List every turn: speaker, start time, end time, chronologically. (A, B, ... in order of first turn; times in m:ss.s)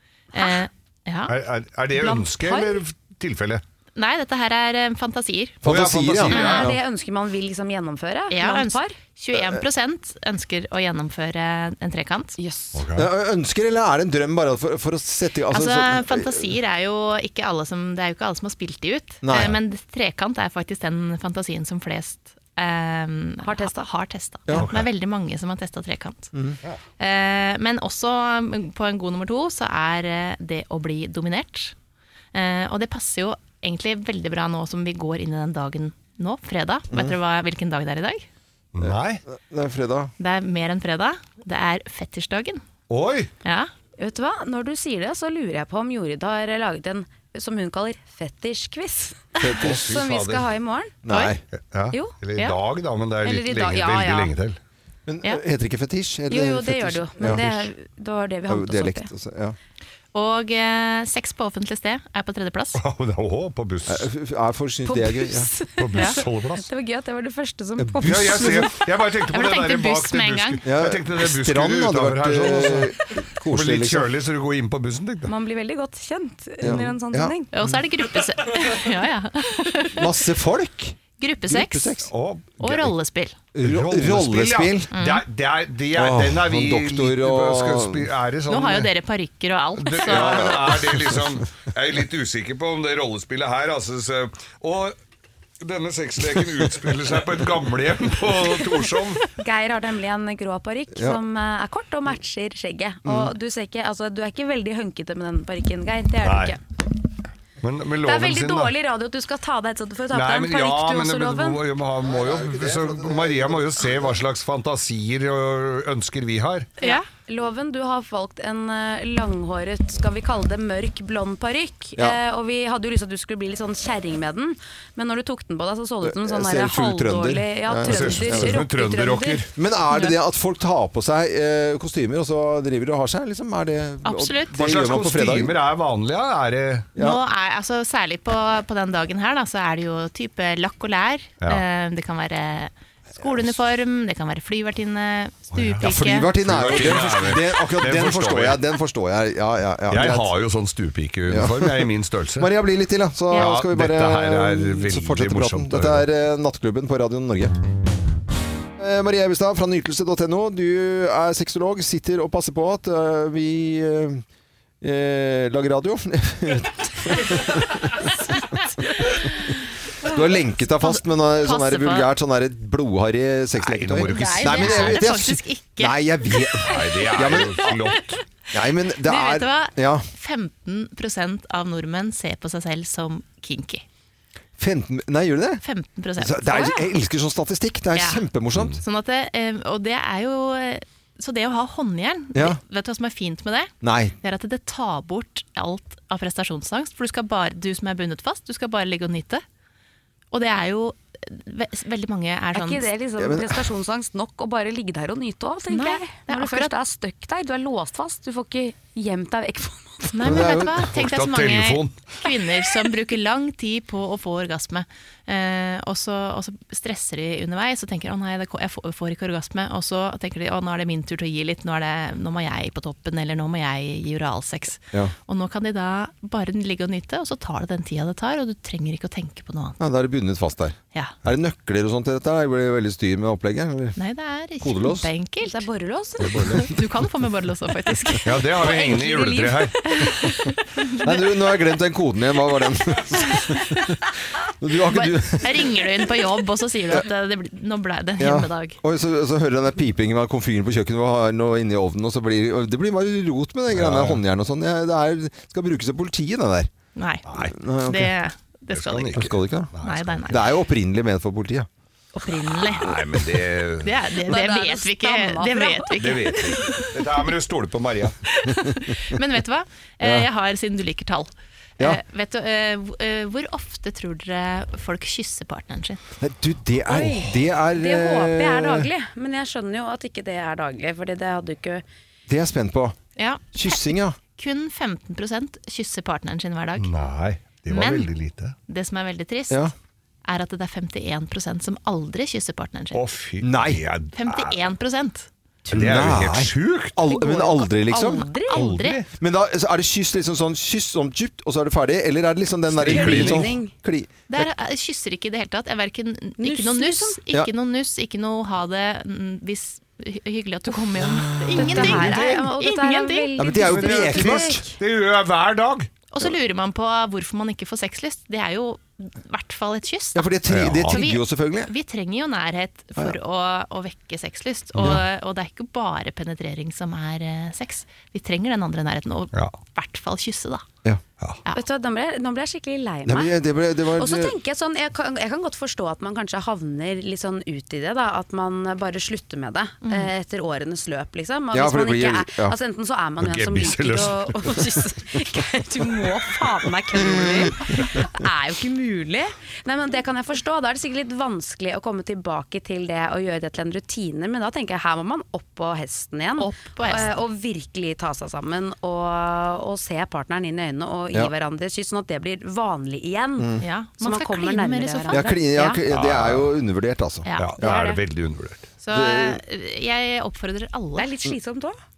0:00.3-0:01.3 A
0:01.3-0:03.6 B
0:01.9-0:02.8 C
0:04.0-0:05.6 A
0:05.6-0:06.7 D
0:05.6-0:06.8 B
0:06.3-0:06.7 A
0:06.3-0:09.0 C
0:08.3-0:12.4 A
0:12.4-0:12.8 C
0:12.7-0:13.1 B
0:13.0-0:16.5 D
0:15.5-0:26.3 A
0:19.2-0:19.6 D
0:23.4-0:23.9 C
0:24.5-0:24.9 B
0:27.0-0:31.7 A
0:32.3-0:38.2 A
0:38.7-0:39.2 B
0:38.8-0:40.1 D
0:40.2-0:42.6 A
0:42.9-0:43.3 B
0:43.4-0:43.7 A
0:44.0-0:51.0 C
0:49.4-0:49.9 D
0:49.6-0:50.5 B
0:51.0-0:51.4 D
0:51.1-0:51.4 A
0:51.5-0:54.6 B
0:51.9-0:52.2 C
0:53.2-0:54.3 C
0:55.1-0:57.7 D
0:56.3-0:59.1 C
0:58.5-0:59.6 D
1:00.1-1:02.8 A
1:02.8-1:04.0 B
1:03.9-1:05.5 D
1:04.8-1:08.6 C
1:05.8-1:06.7 B
1:07.8-1:08.7 D
1:08.0-1:12.9 B
1:09.3-1:10.6 A
1:10.6-1:14.1 D
1:13.5-1:15.3 B
1:15.2-1:17.5 C
1:16.6-1:17.6 D
1:17.5-1:20.1 A
1:19.9-1:22.1 D
1:21.2-1:22.0 A
1:22.0-1:22.9 B
1:22.6-1:23.4 A
1:23.5-1:24.9 D
1:23.6-1:28.9 B
1:24.9-1:25.2 A
1:25.9-1:28.1 D
1:28.5-1:30.6 A
1:29.8-1:35.0 B
1:30.0-1:31.3 D
1:35.6-1:39.2 B
1:39.4-1:46.6 C
1:43.0-1:43.3 D
1:46.2-1:46.6 B
1:47.6-1:48.7 B
1:48.0-1:51.6 C
1:50.1-1:56.7 B
1:52.0-1:53.7 D
1:56.8-1:57.0 A
1:56.8-2:09.5 C
2:06.0-2:08.6 D
2:07.8-2:09.5 B
2:09.6-2:15.5 D
2:14.0-2:14.6 A
2:14.6-2:16.9 B
2:17.0-2:17.2 D
2:17.0-2:26.7 A
2:25.5-2:28.6 B
2:25.8-2:30.3 D
2:29.9-2:32.5 B
2:31.3-2:37.5 D
2:33.3-2:33.6 A
2:33.3-2:36.0 B
2:38.8-2:44.2 D
2:44.8-2:47.9 D
2:50.0-2:57.7 D
2:50.7-2:52.1 A
2:53.6-2:55.0 B
2:54.1-2:56.6 A
2:56.6-2:58.2 B
2:58.5-3:00.1 D
2:59.0-3:03.8 A
3:04.6-3:05.6 D
3:05.6-3:06.9 A
3:06.2-3:08.8 D
3:07.9-3:08.3 A
3:08.8-3:19.4 A
3:12.3-3:12.6 D
3:13.8-3:14.2 D
3:20.3-3:22.9 A
3:22.5-3:30.2 C
3:23.2-3:23.6 D
3:25.7-3:26.7 A
3:30.1-3:49.8 A
3:30.2-3:30.9 D
3:30.8-3:32.2 B
3:49.8-3:54.0 D
3:54.0-3:55.7 A
3:54.6-3:55.1 D
3:55.4-3:56.6 C
3:56.2-3:56.6 B
3:56.6-3:58.4 A
3:58.2-3:59.9 B
3:58.6-4:00.4 C
4:01.0-4:03.8 D
4:04.6-4:05.8 D
4:04.9-4:08.8 A
4:08.2-4:16.7 D
4:13.7-4:14.2 B
4:17.0-4:20.5 A
4:17.3-4:18.1 D
4:18.7-4:20.3 B
4:19.1-4:19.7 D
4:20.2-4:21.7 D
4:22.1-4:23.0 A
4:22.7-4:23.9 B
4:23.8-4:26.8 A
4:24.2-4:26.9 C
4:26.0-4:28.1 B
4:28.3-4:36.0 A
4:30.0-4:30.3 D
4:36.2-4:38.9 D
4:36.8-4:41.8 C
4:42.3-4:43.0 D
4:43.2-4:46.9 A
4:43.5-4:44.2 D
4:46.8-4:48.6 B
4:47.7-4:48.1 A
4:48.7-4:49.7 A
4:50.2-4:53.0 A
4:52.9-4:54.6 B
4:53.4-4:53.8 D
4:54.1-4:55.3 A
4:55.7-4:58.3 D
4:55.7-4:57.0 B
4:57.1-4:58.7 C
4:58.4-4:59.0 A
4:58.5-4:59.1 B
4:59.2-5:04.1 D
5:02.8-5:03.5 B
5:02.8-5:03.7 C
5:04.3-5:13.5 A
5:06.4-5:07.2 C
5:11.1-5:12.1 D
5:11.5-5:14.8 C
5:11.6-5:12.4 B
5:13.4-5:14.6 D
5:13.6-5:15.9 B
5:16.1-5:30.6 A
5:20.1-5:21.7 D
5:20.5-5:21.0 B
5:24.8-5:25.0 D
5:29.3-5:29.6 B
5:31.5-5:33.3 C
5:33.1-5:34.3 D
5:33.9-6:05.5 C
5:39.8-5:40.1 A
5:41.5-5:42.6 D
5:43.2-5:44.5 B
5:56.4-5:57.2 A
6:03.4-6:03.6 D
6:03.6-6:05.8 A
6:05.1-6:07.9 D
6:05.9-6:06.5 B
6:07.4-6:08.7 B
6:07.6-6:08.0 C
6:08.8-6:11.2 A
6:08.9-6:09.4 D
6:11.0-6:11.8 C